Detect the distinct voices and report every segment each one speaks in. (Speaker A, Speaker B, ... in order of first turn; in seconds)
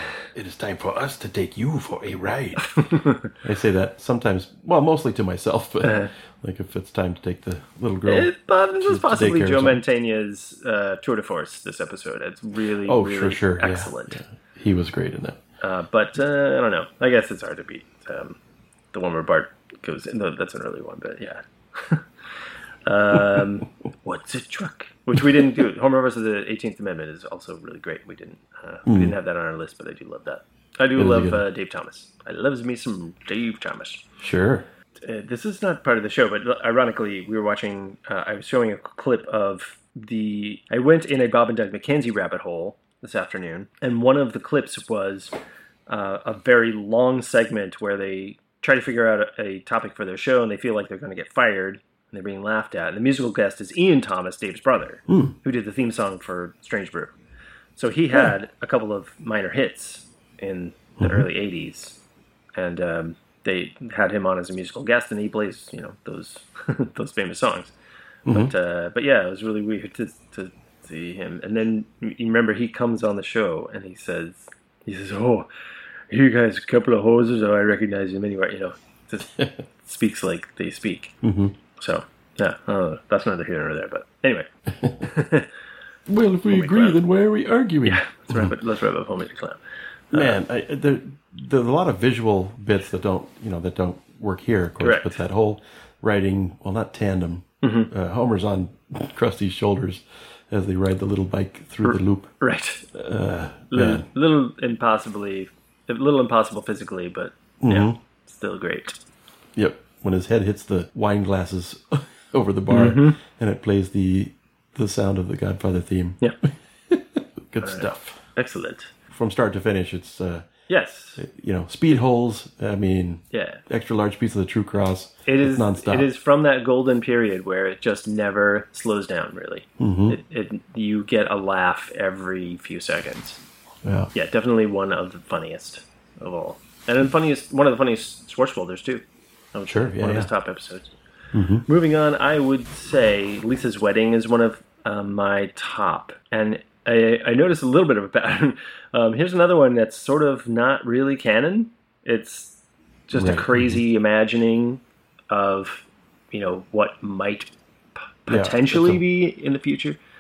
Speaker A: 0.3-2.7, 3.4-9.8, 12.8-15.4, 28.9-29.2, 30.9-31.4, 34.2-34.7, 55.1-55.4, 61.0-61.3, 68.3-68.5, 81.2-81.6, 86.1-88.5, 90.1-102.3, 102.9-104.1, 107.6-108.0, 109.6-116.2, 116.9-118.2, 119.1-120.5, 121.2-126.1, 129.8-130.2, 133.8-134.1, 139.7-140.3, 141.3-141.7, 153.1-153.8, 158.3-159.0
Speaker B: 2.7-3.3, 5.8-6.1, 8.1-14.2, 15.6-18.4, 18.9-22.1, 22.9-34.0, 35.0-45.3, 45.9-57.1, 57.8-62.0, 62.5-67.7, 68.3-75.5, 76.1-81.2, 81.8-84.5, 85.0-85.5, 86.5-87.0, 87.8-89.6, 90.1-90.4, 94.8-95.2, 97.6-97.9, 101.8-102.8, 103.7-109.0, 112.7-113.2, 117.6-118.9, 120.7-121.2, 123.3-123.6, 125.3-133.4, 134.1-139.0, 139.5-140.9, 141.7-157.5, 158.2-160.0